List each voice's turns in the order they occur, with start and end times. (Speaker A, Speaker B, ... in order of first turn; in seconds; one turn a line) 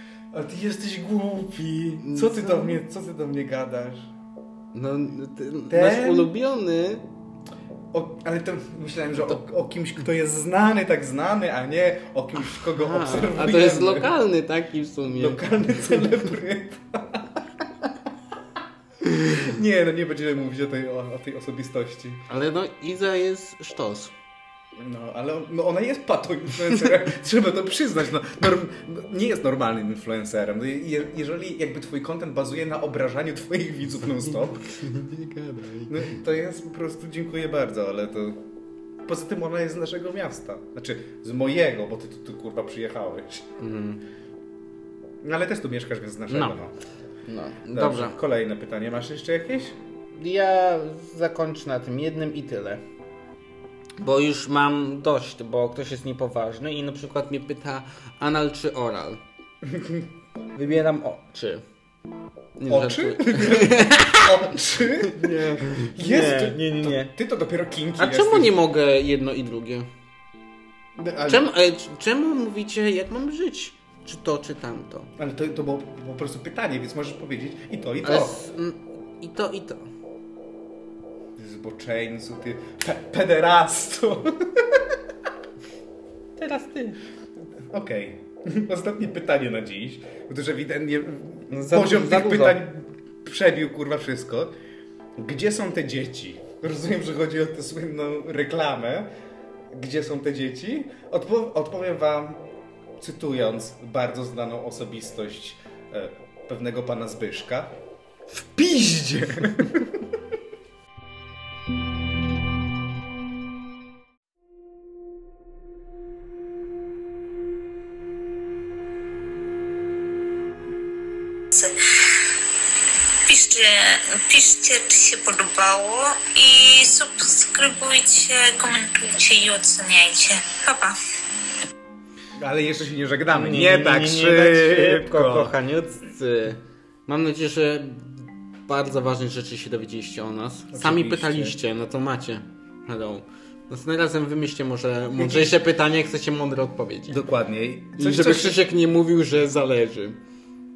Speaker A: 0.3-4.1
Speaker B: 2.0-2.8
Speaker B: 4.7-7.0
Speaker A: 5.7-6.3
Speaker A: 7.9-14.1
Speaker B: 12.5-16.1
Speaker A: 15.2-17.4
Speaker A: 19.0-22.3
Speaker B: 22.3-24.1
Speaker A: 24.8-34.9
Speaker B: 34.2-36.2
Speaker A: 35.9-38.4
Speaker A: 39.0-43.5
Speaker B: 43.6-44.0
Speaker A: 45.2-46.7
Speaker B: 46.3-46.6
Speaker B: 47.2-48.2
Speaker A: 47.7-49.8
Speaker B: 50.1-52.8
Speaker B: 54.0-59.2
Speaker A: 59.6-60.1
Speaker B: 60.5-61.6
Speaker B: 62.6-64.5
Speaker A: 62.7-68.6
Speaker B: 65.0-67.1
Speaker B: 68.0-69.9
Speaker A: 71.0-71.5
Speaker B: 71.2-75.1
Speaker A: 75.2-78.5
Speaker B: 78.0-79.9
Speaker A: 81.3-85.0
Speaker B: 86.4-87.0
Speaker A: 87.6-94.5
Speaker B: 91.5-92.6
Speaker A: 95.2-99.1
Speaker A: 99.7-102.5
Speaker A: 103.0-107.8
Speaker A: 108.3-110.0
Speaker C: 121.5-122.3
Speaker C: 123.2-131.0
Speaker A: 132.4-135.6
Speaker B: 133.3-147.2
Speaker A: 140.7-141.6
Speaker A: 145.2-145.6
Speaker A: 147.1-148.7
Speaker B: 147.9-150.2